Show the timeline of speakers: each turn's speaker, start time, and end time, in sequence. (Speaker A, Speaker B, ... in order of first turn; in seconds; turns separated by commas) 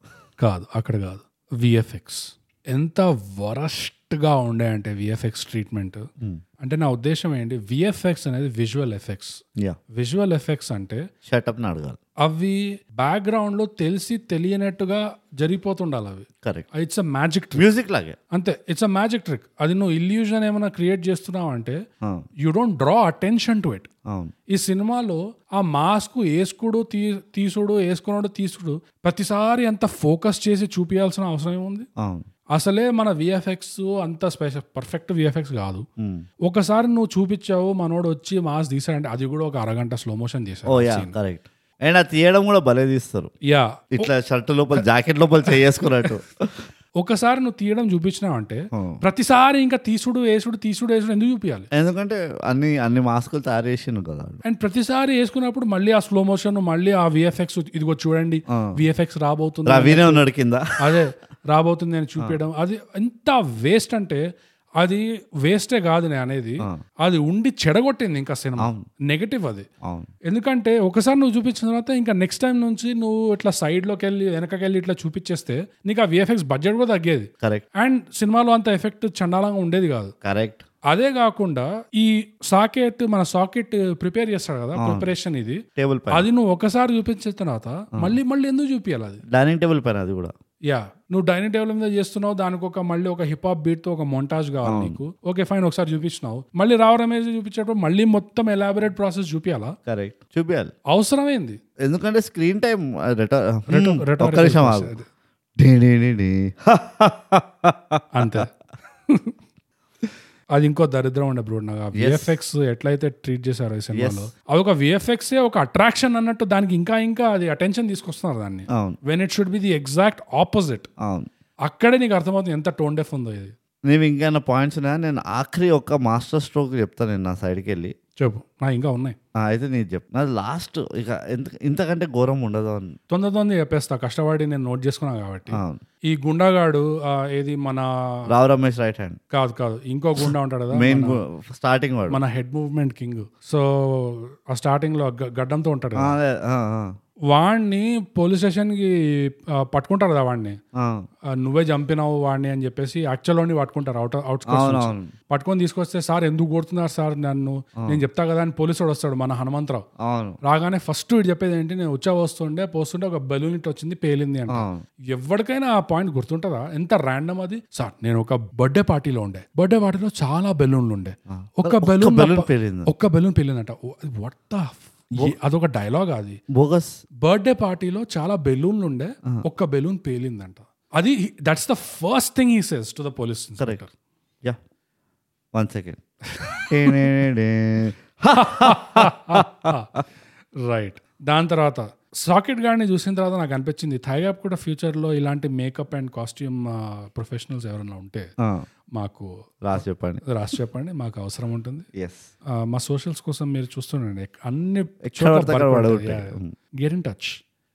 Speaker A: 0.4-6.1, Speaker A: 6.6-9.4, Speaker A: 9.9-11.1, Speaker B: 11.3-12.0, Speaker A: 12.2-17.7, Speaker B: 17.6-18.2, Speaker A: 18.3-21.8, Speaker A: 22.4-23.9, Speaker B: 24.1-24.3, Speaker A: 24.5-31.9, Speaker B: 32.0-32.3, Speaker A: 32.5-35.9, Speaker B: 36.0-36.2, Speaker A: 36.5-41.1, Speaker B: 40.7-43.3, Speaker A: 43.5-44.1, Speaker B: 44.0-46.7, Speaker A: 47.0-51.7, Speaker B: 48.7-49.0, Speaker B: 51.7-54.4, Speaker A: 54.4-60.2, Speaker B: 58.5-58.8, Speaker B: 59.7-61.0, Speaker A: 60.8-64.2, Speaker A: 64.8-69.7, Speaker B: 68.6-68.9, Speaker B: 69.8-70.1, Speaker A: 70.3-80.1, Speaker B: 80.2-80.7, Speaker A: 80.9-89.2, Speaker B: 84.8-85.1, Speaker B: 85.8-86.2, Speaker B: 89.3-90.3, Speaker A: 90.7-99.8, Speaker B: 94.7-95.0, Speaker B: 99.9-100.7, Speaker A: 100.9-101.6, Speaker B: 101.8-104.9, Speaker A: 103.7-105.1, Speaker B: 105.6-108.5, Speaker A: 108.2-108.5, Speaker A: 109.1-109.3, Speaker A: 110.5-120.9, Speaker B: 112.0-112.4, Speaker B: 113.9-114.3, Speaker B: 118.7-119.0, Speaker B: 121.0-121.3, Speaker A: 121.7-123.5, Speaker B: 123.9-127.9, Speaker A: 128.2-129.2, Speaker B: 129.3-133.0, Speaker A: 133.1-138.3, Speaker B: 135.5-135.8, Speaker B: 138.3-139.2, Speaker A: 139.3-141.2, Speaker B: 140.7-142.2, Speaker A: 142.1-146.2, Speaker B: 146.0-146.9, Speaker A: 147.3-150.6, Speaker B: 150.8-151.1, Speaker A: 151.3-159.9, Speaker B: 154.5-155.1, Speaker B: 160.0-160.4, Speaker A: 160.4-176.4, Speaker B: 164.5-164.8, Speaker B: 171.3-172.9, Speaker B: 176.5-177.0, Speaker A: 177.2-183.9, Speaker B: 185.6-186.0, Speaker A: 186.3-187.0, Speaker B: 186.6-190.0, Speaker A: 188.3-189.9, Speaker A: 190.6-198.3, Speaker B: 198.4-198.7, Speaker A: 198.9-199.3, Speaker B: 199.6-200.2, Speaker A: 200.2-201.9, Speaker B: 201.9-202.3, Speaker A: 202.6-207.4, Speaker B: 205.0-206.5